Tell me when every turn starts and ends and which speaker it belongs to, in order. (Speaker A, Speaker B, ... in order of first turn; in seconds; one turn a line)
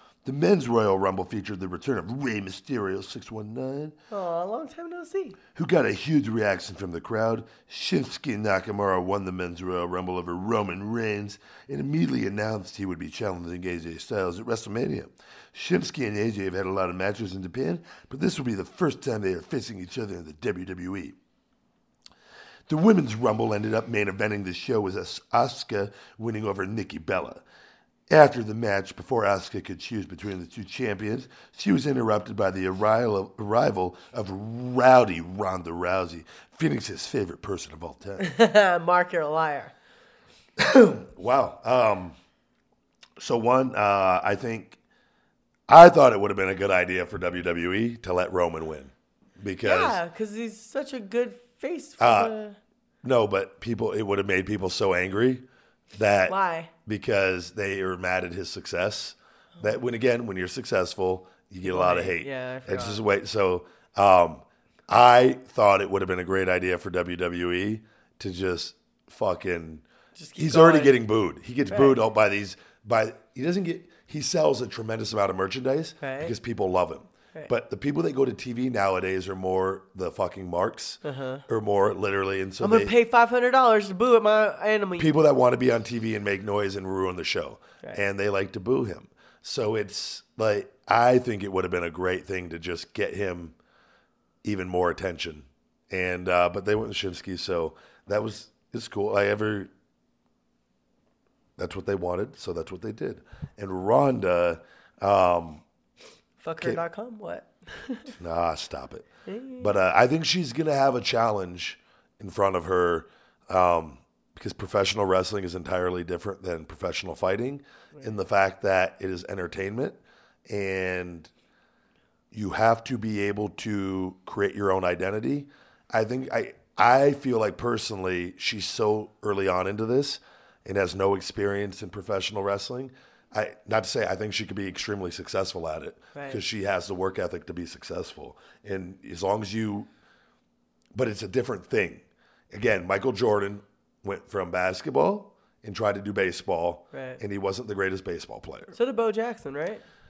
Speaker A: 0.2-3.9
Speaker B: 4.1-5.4
Speaker A: 5.5-21.1
Speaker A: 22.7-27.4
Speaker A: 28.1-38.3
Speaker B: 38.2-39.7
Speaker A: 40.6-42.1
Speaker A: 43.2-44.8
Speaker A: 45.7-50.0
Speaker B: 49.6-52.6
Speaker A: 52.0-52.3
Speaker A: 53.0-55.4
Speaker A: 55.9-69.8
Speaker B: 56.3-56.7
Speaker B: 61.6-63.0
Speaker B: 70.2-71.0
Speaker A: 70.4-82.9
Speaker B: 71.7-72.0
Speaker B: 76.0-76.3
Speaker B: 81.0-81.4
Speaker B: 82.6-85.1
Speaker A: 85.0-93.5
Speaker A: 94.4-99.7
Speaker A: 101.6-105.6
Speaker B: 106.4-108.1
Speaker A: 108.2-109.1
Speaker B: 109.3-109.7
Speaker A: 109.6-121.3
Speaker A: 122.3-139.9
Speaker B: 136.1-136.4
Speaker A: 140.9-148.7
Speaker B: 146.9-147.2
Speaker B: 148.7-149.8